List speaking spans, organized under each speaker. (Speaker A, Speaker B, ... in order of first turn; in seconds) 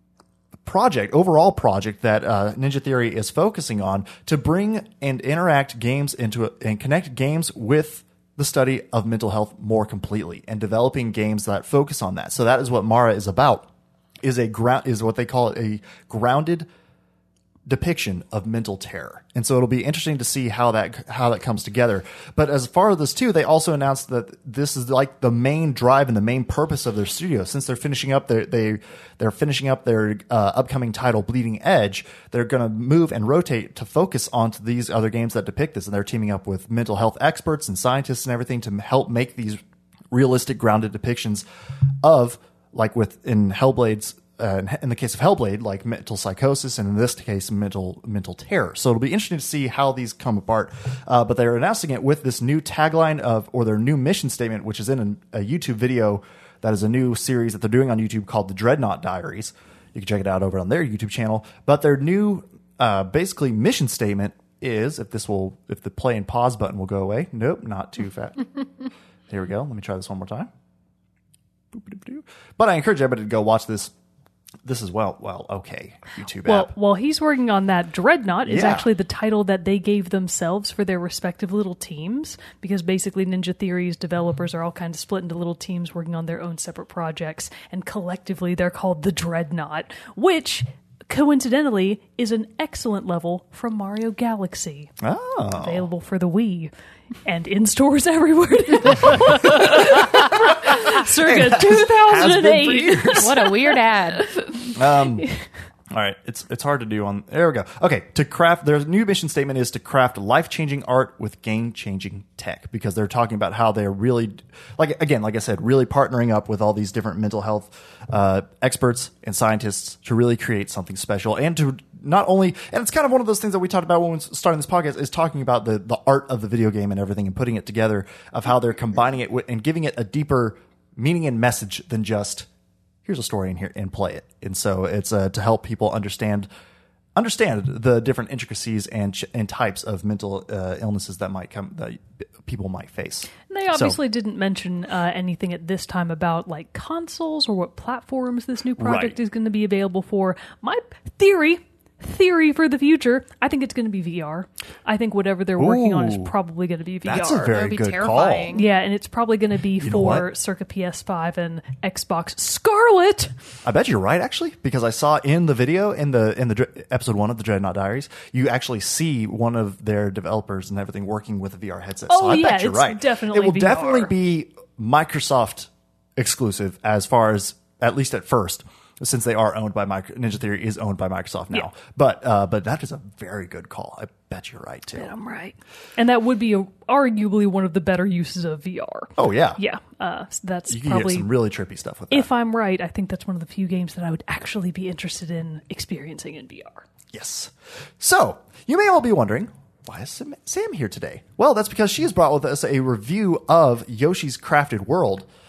Speaker A: 0.6-13.7, 14.2-16.7, 17.7-39.6, 40.1-41.4, 42.0-68.5, 69.3-70.5, 71.7-73.9, 74.6-76.7, 78.5-78.9, 95.0-95.9, 99.1-103.3, 104.7-105.3, 105.9-132.5, 133.0-136.5, 137.2-144.0, 148.8-149.2, 155.6-156.3, 157.0-158.5, 159.8-160.3, 163.6-185.1, 189.2-189.6, 190.7-192.3, 197.1-205.3
Speaker B: 76.4-95.0, 95.5-96.7, 97.2-103.6, 104.2-105.5, 143.5-157.5, 158.5-163.3, 172.1-174.1, 184.9-191.3, 192.1-196.8
Speaker C: 103.1-104.3, 157.5-158.7